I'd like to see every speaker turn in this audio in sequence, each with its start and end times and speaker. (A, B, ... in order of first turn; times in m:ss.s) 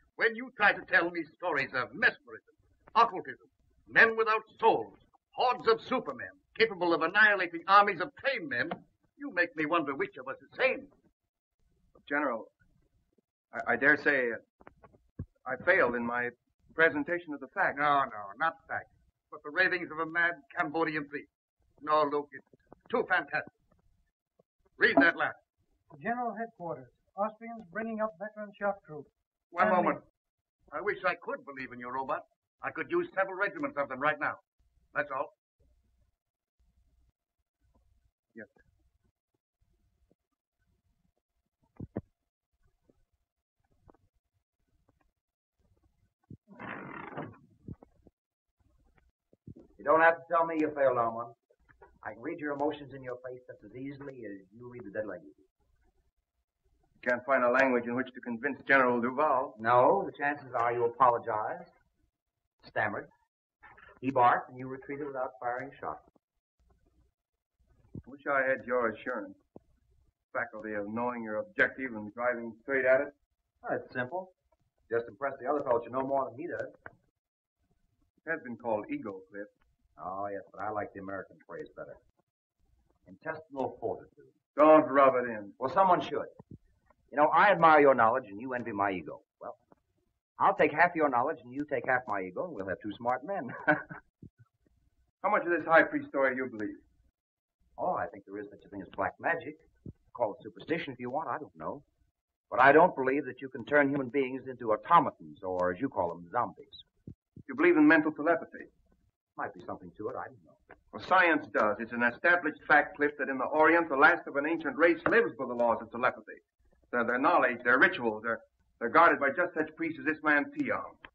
0:00.2-0:10.9 A
0:12.0-0:12.5 B
0:13.5-0:14.4 B
0:15.4-0:17.8 B
0:17.7-0:21.3 A
0:21.8-0:23.5 A
0:24.8-0:25.4 A
0:25.9-0:29.1 C
0:29.5-0:30.0 A
0:29.6-0:30.0 C
0:30.7-0:34.4 A
0:34.9-0:35.3 A
0:49.8-0:51.3 D
0:52.0-0:55.5 D
0:57.0-0:59.6 B
0:59.6-1:01.7 D
1:02.6-1:03.1 D
1:04.0-1:06.0 D
1:08.0-1:09.4 B
1:10.3-1:13.1 B
1:13.6-1:14.3 D
1:14.9-1:16.8 D
1:18.2-1:19.5 B
1:20.0-1:22.0 D
1:23.0-1:24.3 D
1:24.5-1:25.6 B
1:25.6-1:26.3 D
1:27.1-1:29.6 D
1:30.4-1:33.8 D
1:35.2-1:36.8 B
1:37.8-1:41.8 D
1:42.5-1:46.8 D
1:47.4-1:48.7 B
1:49.4-1:50.6 D
1:50.9-2:01.0 B